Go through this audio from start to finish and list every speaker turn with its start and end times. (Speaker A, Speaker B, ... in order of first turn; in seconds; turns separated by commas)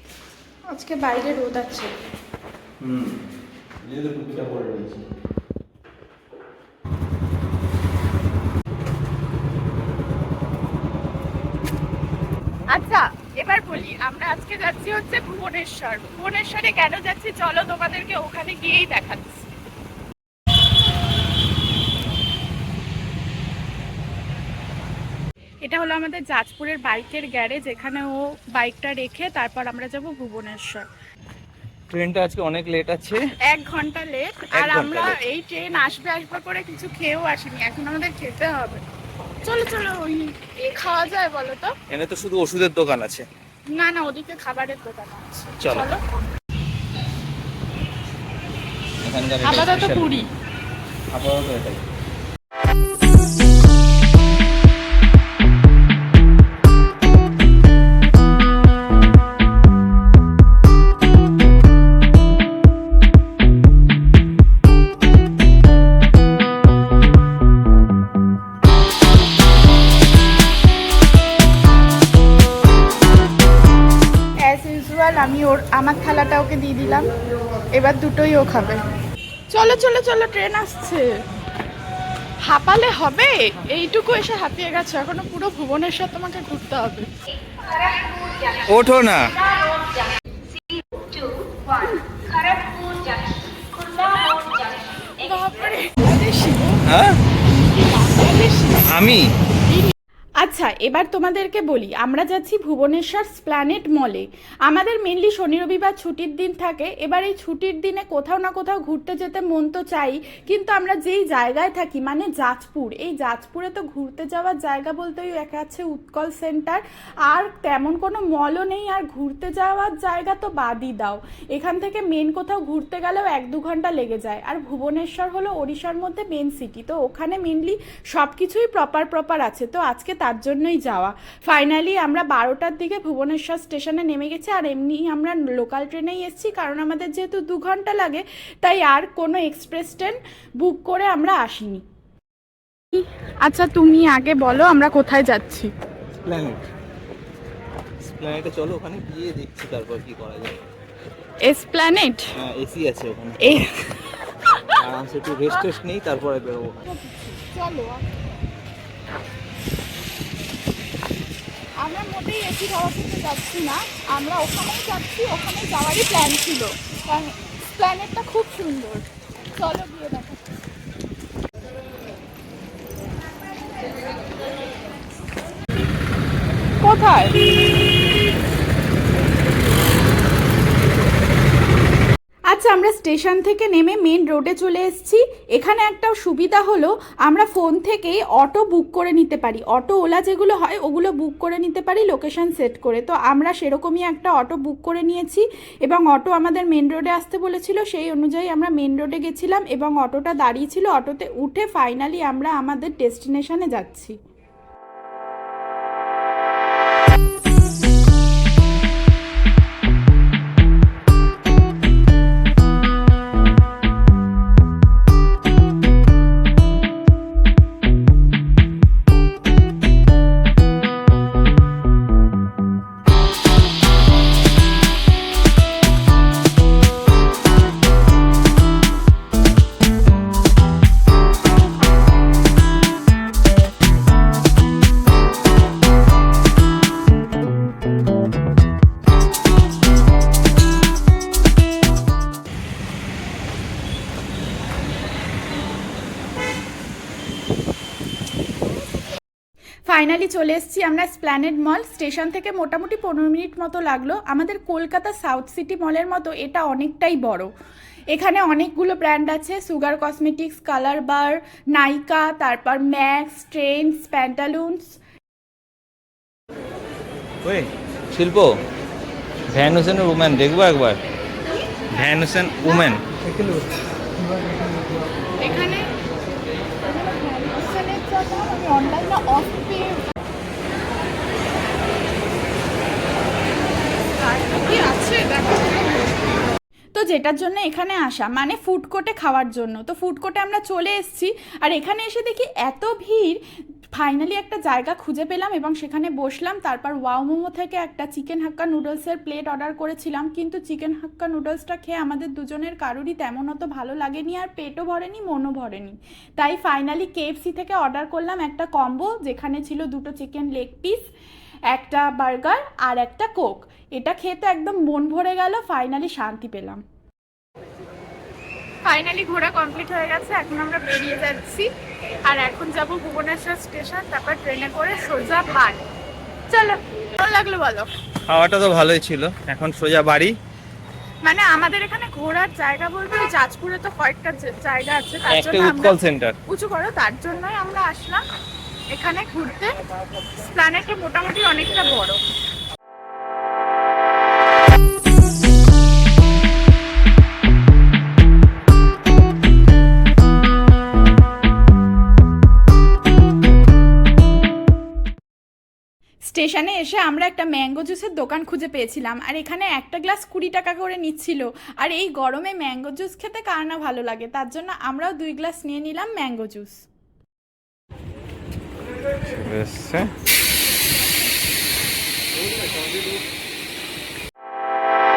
Speaker A: 0.7-1.9, Speaker B: 2.8-3.1, Speaker B: 3.8-5.0, Speaker A: 12.7-19.5, Speaker A: 25.6-30.9, Speaker B: 31.9-33.2, Speaker A: 33.5-38.8, Speaker B: 34.5-35.2, Speaker A: 39.4-41.7, Speaker B: 41.9-43.2, Speaker A: 43.7-46.0, Speaker B: 45.6-45.9, Speaker B: 49.0-50.1, Speaker A: 49.4-50.3, Speaker B: 51.1-51.8, Speaker A: 74.4-77.1, Speaker A: 77.7-78.8, Speaker A: 79.5-81.1, Speaker A: 82.4-87.1, Speaker B: 88.5-89.4, Speaker A: 91.6-93.0, Speaker A: 93.8-96.8, Speaker B: 96.8-97.2, Speaker A: 97.3-99.0, Speaker B: 98.8-99.3, Speaker A: 99.7-141.8, Speaker A: 142.9-145.7, Speaker B: 146.2-146.7, Speaker B: 148.0-150.6, Speaker A: 151.4-152.3, Speaker B: 152.3-153.6, Speaker A: 153.4-154.8, Speaker B: 154.8-156.8, Speaker A: 156.8-158.0, Speaker A: 161.8-170.4, Speaker A: 176.8-177.4, Speaker A: 182.5-204.2, Speaker A: 249.9-257.5, Speaker A: 258.1-265.0, Speaker B: 267.4-268.6, Speaker B: 269.5-271.0, Speaker B: 271.9-273.0, Speaker A: 272.6-272.9, Speaker A: 275.4-275.9, Speaker A: 276.8-280.0, Speaker A: 284.1-286.2, Speaker A: 286.9-293.4, Speaker A: 293.9-311.1, Speaker A: 311.7-316.8, Speaker A: 318.9-321.7, Speaker A: 322.2-325.9, Speaker A: 326.5-327.9, Speaker B: 328.3-330.3, Speaker A: 331.2-338.2, Speaker B: 335.3-336.4, Speaker A: 338.9-342.2, Speaker A: 356.2-366.9, Speaker B: 369.2-370.1